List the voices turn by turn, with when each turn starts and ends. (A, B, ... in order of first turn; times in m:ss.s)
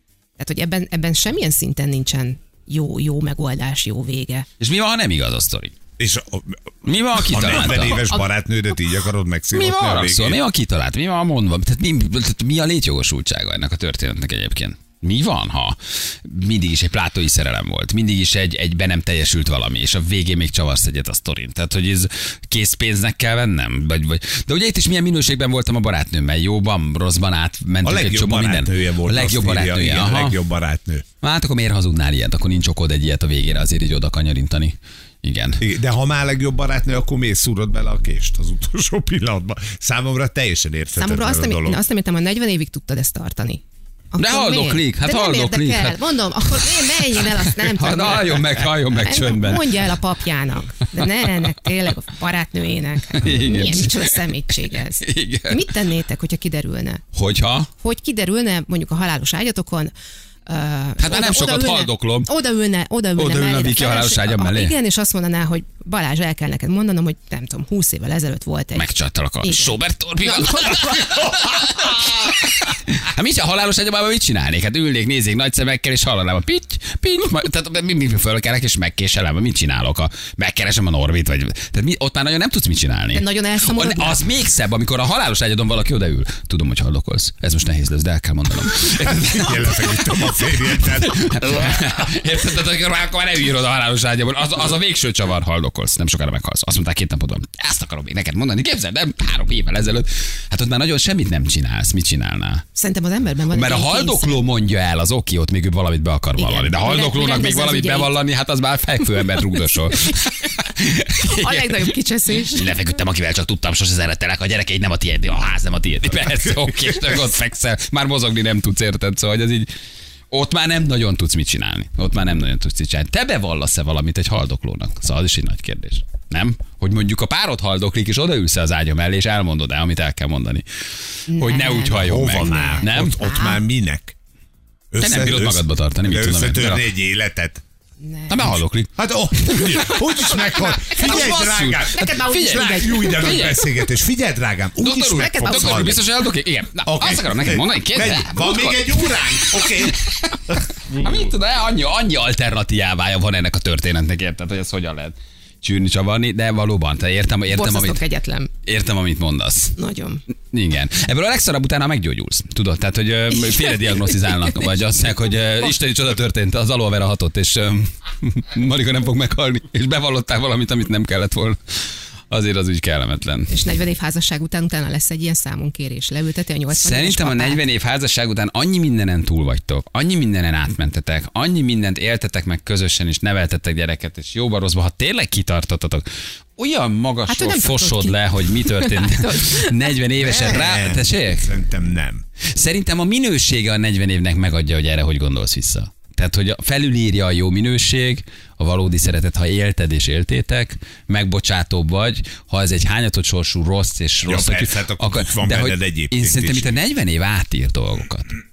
0:00.4-0:04.4 A
0:04.6-0:05.7 B
0:06.0-0:06.6 C
0:06.8-0:08.1 B
0:07.3-0:10.4 C
0:09.5-0:30.4 B
0:27.8-0:31.0 C
0:31.2-0:35.6 B
0:35.6-0:41.8 C
0:40.9-0:43.6 A
0:44.1-0:57.0 A
0:44.2-0:49.9 B
0:53.1-0:54.2 B
0:55.0-0:55.7 B
0:57.1-0:57.7 B
0:57.8-0:59.9 A
1:00.4-1:08.9 A
1:01.0-1:02.3 B
1:03.2-1:04.7 B
1:08.7-1:30.0 B
1:09.4-1:11.2 A
1:23.1-1:24.3 A
1:28.8-1:31.4 C
1:30.7-1:42.6 B
1:42.7-1:44.4 A
1:43.5-1:51.8 B
1:46.4-1:48.2 A
1:51.2-1:52.7 A
1:52.5-1:59.7 B
1:56.4-1:57.1 C
2:00.3-2:10.6 B
2:11.3-2:13.6 A
2:11.3-2:13.2 B
2:12.0-2:14.1 C
2:14.9-2:17.6 C
2:15.0-2:16.9 B
2:18.0-2:18.5 A
2:18.3-2:18.9 B
2:19.0-2:26.0 C
2:19.5-2:19.9 B
2:20.6-2:23.7 B
2:20.9-2:21.2 A
2:22.0-2:23.5 A
2:24.8-2:38.0 B
2:25.1-2:26.0 A
2:26.8-2:31.2 C
2:37.5-2:38.5 A
2:38.6-2:39.7 B
2:39.8-2:40.2 A
2:40.5-2:51.6 B
2:52.3-2:53.5 B
2:53.5-2:57.6 A
2:56.7-3:06.0 B
3:06.6-3:11.5 B
3:07.3-3:10.6 A
3:10.2-3:12.2 C
3:12.5-3:28.4 B
3:24.2-3:26.7 C